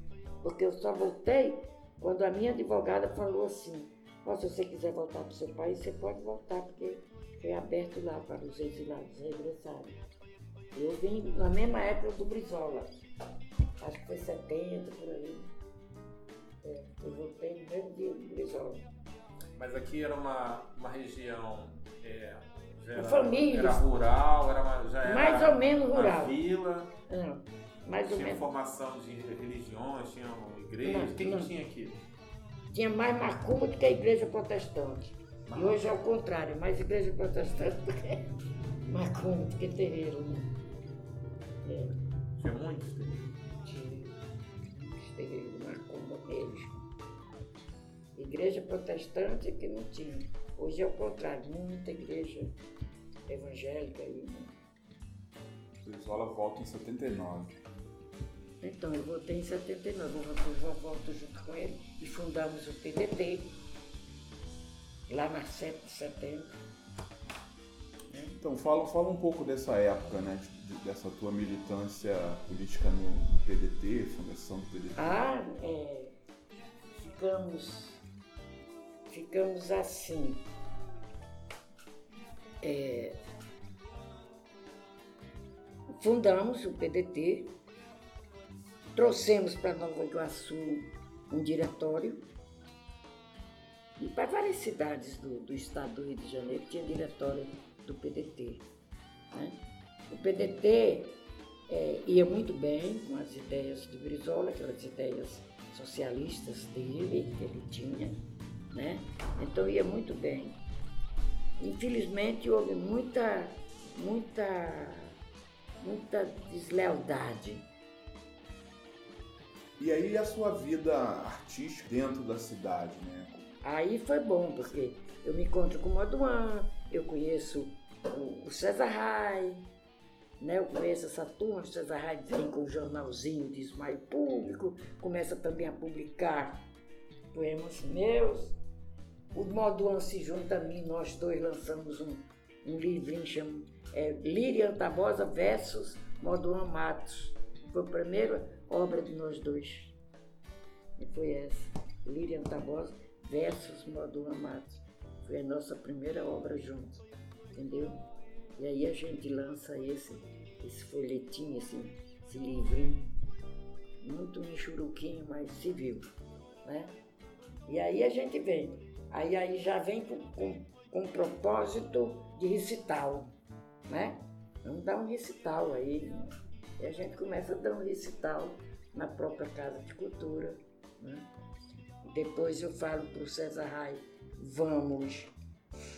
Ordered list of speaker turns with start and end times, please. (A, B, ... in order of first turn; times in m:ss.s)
0:00.4-0:10.0 A
0:10.7-0:13.0 A
0:13.8-0:15.5 A
0:16.6-0:18.9 A
0:19.6-0:26.9 B
0:22.9-0:23.8 A
0:25.0-0:26.4 A
0:27.1-0:28.4 A
0:28.0-0:32.0 B
0:30.8-0:31.5 A
0:32.7-0:38.3 A
0:35.5-0:35.9 B
0:38.8-0:40.5 A
0:41.6-0:41.9 A
0:42.4-0:43.2 B
0:43.6-0:44.2 A
0:44.8-0:46.8 A
0:48.2-0:52.5 A
0:53.3-0:54.5 A
0:55.8-0:57.6 C
0:58.6-1:03.5 A
1:05.1-1:06.5 A
1:08.1-1:08.4 A
1:08.4-1:15.2 C
1:15.0-1:16.2 A
1:16.9-1:18.0 A
1:19.1-1:20.4 A
1:22.6-1:23.2 A
1:26.0-1:27.6 A
1:28.9-1:32.2 A
1:34.0-1:38.6 A
1:39.3-1:39.6 A
1:40.1-1:48.1 A
1:48.7-1:50.6 A
1:51.6-1:55.1 A
1:55.8-1:57.7 A
1:59.8-2:03.4 C
2:03.6-2:09.7 A
2:10.4-2:16.7 A
2:17.3-2:18.6 A
2:19.3-2:30.0 A
2:31.0-2:38.0 A
2:38.6-2:43.1 A
2:44.0-2:46.1 A
2:46.6-2:46.9 A
2:47.6-2:53.3 A
2:53.9-3:01.3 A
3:02.0-3:05.3 A